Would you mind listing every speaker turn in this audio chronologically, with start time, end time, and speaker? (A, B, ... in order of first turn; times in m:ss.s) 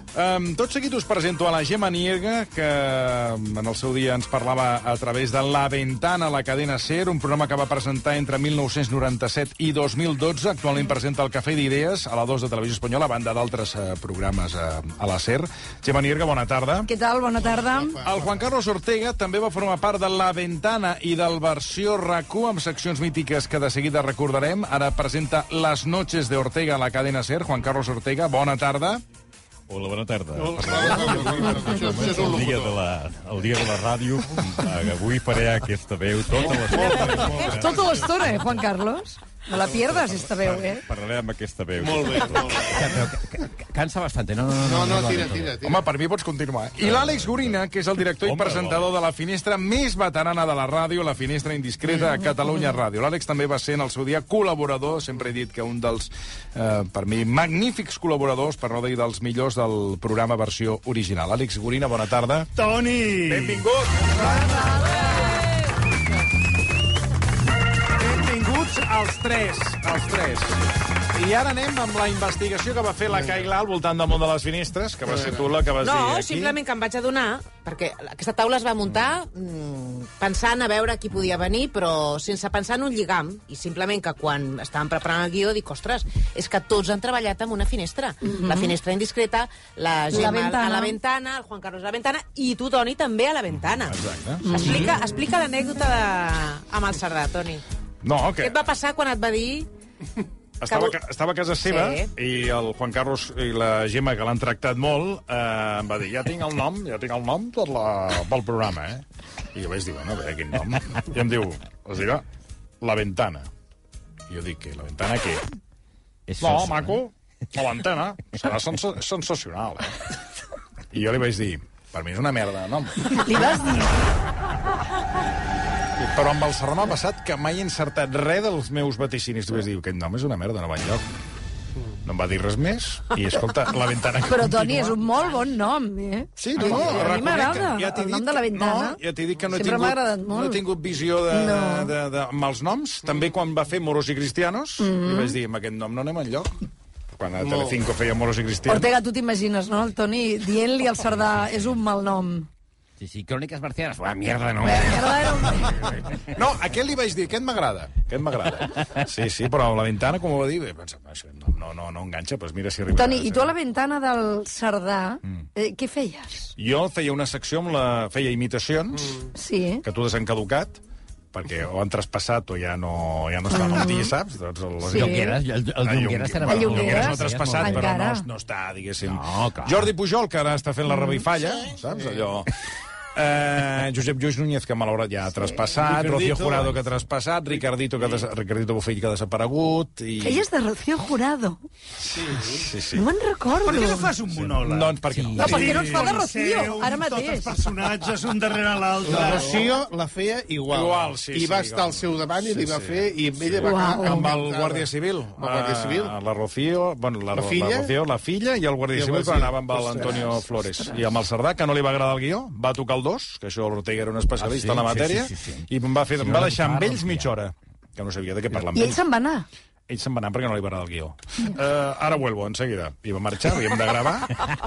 0:00.1-0:16.9 A
0:16.9-0:18.0 B
0:17.4-0:18.5 C
0:18.0-0:29.0 A
0:29.7-0:37.9 D
0:30.4-0:32.8 C
0:36.4-0:38.0 C
0:36.7-0:40.8 B
0:40.8-0:42.7 D
0:41.8-0:43.0 C
0:42.7-0:45.6 E
0:44.6-0:45.9 C
0:45.6-1:02.5 A
0:46.8-0:47.6 D
0:48.2-0:48.9 D
1:02.6-1:03.6 F
1:03.2-1:04.8 A
1:08.0-1:10.6 A
1:11.1-1:16.6 A
1:13.1-1:13.5 C
1:15.1-1:15.5 C
1:15.8-1:34.0 G
1:28.2-1:28.7 B
1:30.1-1:31.0 B
1:33.8-1:34.8 A
1:34.4-1:34.9 B
1:34.5-1:37.6 G
1:38.0-1:38.5 A
1:38.4-1:39.7 G
1:40.6-1:49.0 A
1:40.7-1:41.0 G
1:41.6-1:42.1 G
1:49.5-1:52.2 A
1:52.8-1:53.5 A
1:54.3-1:55.4 A
1:56.3-1:57.0 E
1:56.4-1:59.9 A
2:00.9-2:03.5 A
2:03.2-2:03.9 B
2:06.0-2:11.0 A
2:12.0-2:15.0 A
2:14.2-2:19.0 B
2:16.4-2:26.5 A
2:19.5-2:20.6 B
2:21.3-2:21.9 B
2:24.8-2:25.4 B
2:27.2-2:28.9 A
2:27.4-2:27.8 C
2:28.7-2:32.5 B
2:33.0-2:35.7 E
2:34.7-2:35.7 B
2:36.4-2:43.5 A
2:43.0-2:46.5 B
2:46.6-2:49.2 A
2:49.0-2:49.3 C
2:49.3-2:49.8 B
2:49.8-2:50.8 A
2:51.3-3:02.5 A
2:53.5-2:54.1 B
2:54.8-2:57.9 E
2:54.9-2:55.4 B
2:56.4-2:58.3 B
2:59.0-2:59.9 E
3:00.9-3:01.2 B
3:01.9-3:02.3 C
3:03.2-3:10.4 A
3:05.9-3:06.7 C
3:10.2-3:11.6 B
3:12.0-3:13.1 A
3:12.2-3:12.6 C
3:12.9-3:14.1 B
3:13.6-3:19.7 F
3:14.3-3:16.2 A
3:15.1-3:15.7 E
3:15.4-3:17.6 B
3:19.0-3:26.2 C
3:19.2-3:19.4 A
3:20.7-3:39.0 A
3:23.6-3:24.3 B
3:27.3-3:28.0 C
3:28.9-3:30.5 C
3:34.4-3:37.3 E
3:38.7-3:39.5 B
3:39.9-3:44.4 A